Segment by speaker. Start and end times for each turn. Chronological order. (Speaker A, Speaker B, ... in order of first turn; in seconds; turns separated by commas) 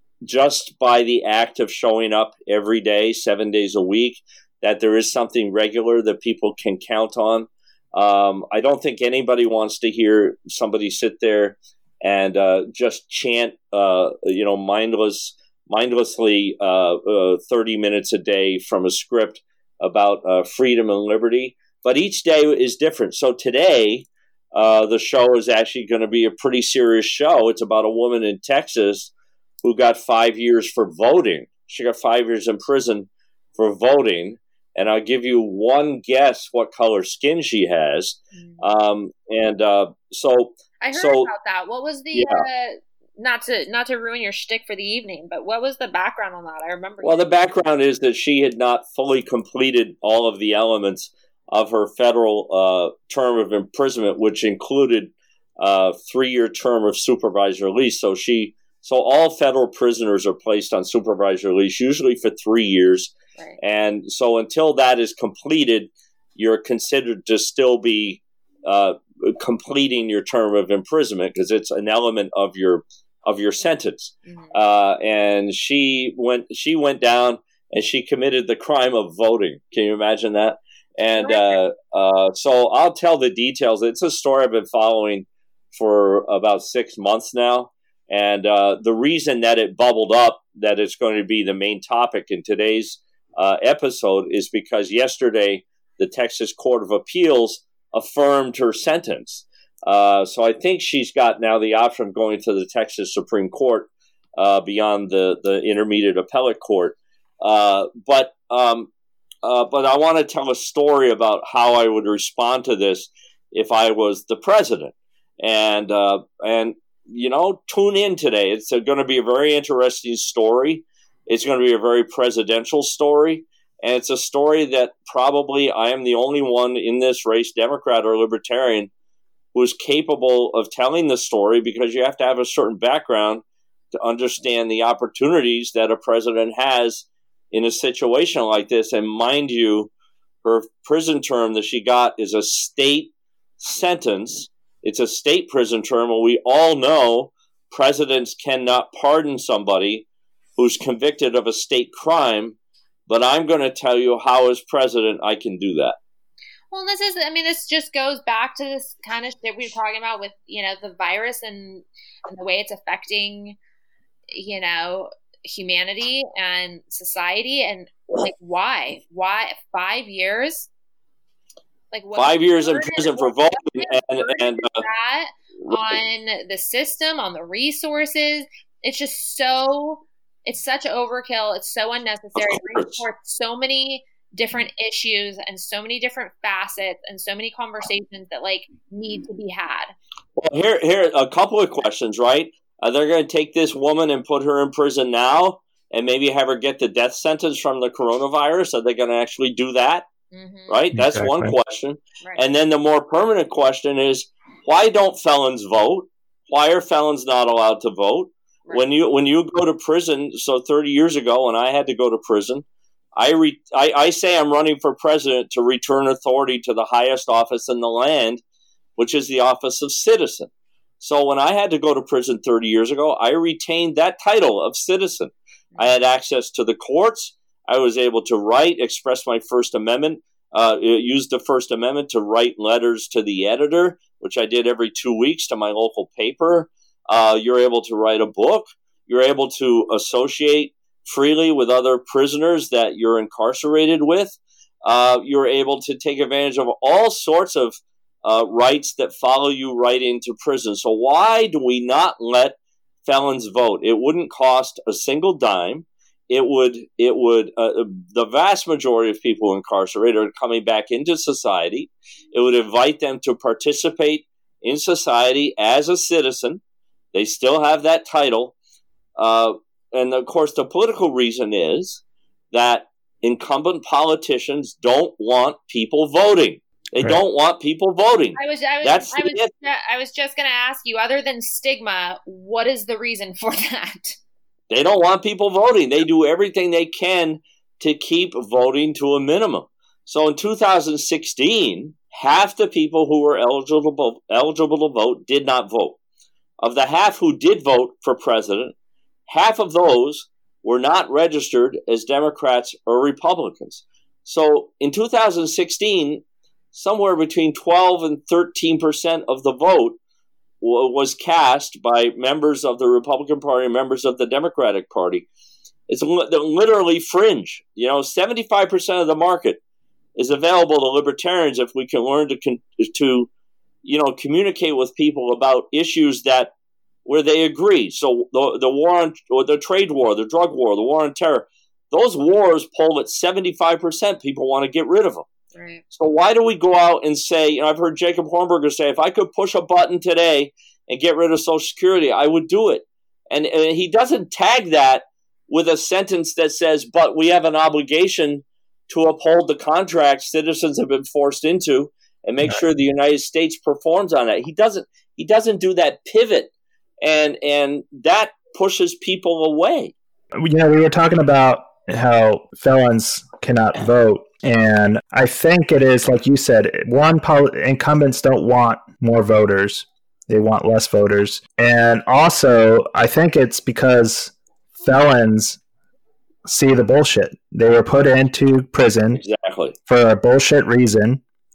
Speaker A: 0.2-29.1, Speaker A: 29.6-41.3, Speaker B: 38.3-38.6, Speaker B: 40.8-47.3, Speaker A: 42.1-42.5, Speaker A: 47.0-108.9, Speaker B: 74.3-74.6, Speaker B: 81.1-81.6, Speaker A: 109.4-128.9, Speaker A: 129.5-133.4, Speaker A: 134.0-139.9, Speaker A: 140.4-150.1, Speaker A: 150.6-152.6, Speaker A: 153.1-156.0, Speaker B: 156.7-163.6, Speaker B: 164.3-170.7, Speaker B: 171.9-189.9, Speaker A: 172.2-174.8, Speaker A: 175.7-176.0, Speaker A: 182.4-183.0, Speaker A: 190.4-200.1, Speaker B: 200.3-200.8, Speaker A: 200.7-212.6, Speaker C: 200.9-201.6, Speaker A: 213.2-218.4, Speaker A: 219.0-220.5, Speaker A: 221.0-266.6, Speaker A: 267.1-268.5, Speaker A: 269.2-279.5, Speaker B: 278.4-284.2, Speaker A: 284.7-296.0, Speaker A: 296.6-298.7, Speaker A: 299.3-306.2, Speaker A: 306.7-310.0, Speaker A: 310.6-315.3, Speaker A: 315.9-319.6, Speaker A: 320.2-323.3, Speaker A: 323.8-326.5, Speaker A: 327.1-335.3, Speaker B: 335.6-335.8, Speaker A: 335.9-359.9, Speaker C: 360.4-375.6, Speaker C: 376.5-379.2, Speaker A: 379.2-379.8, Speaker C: 379.9-381.2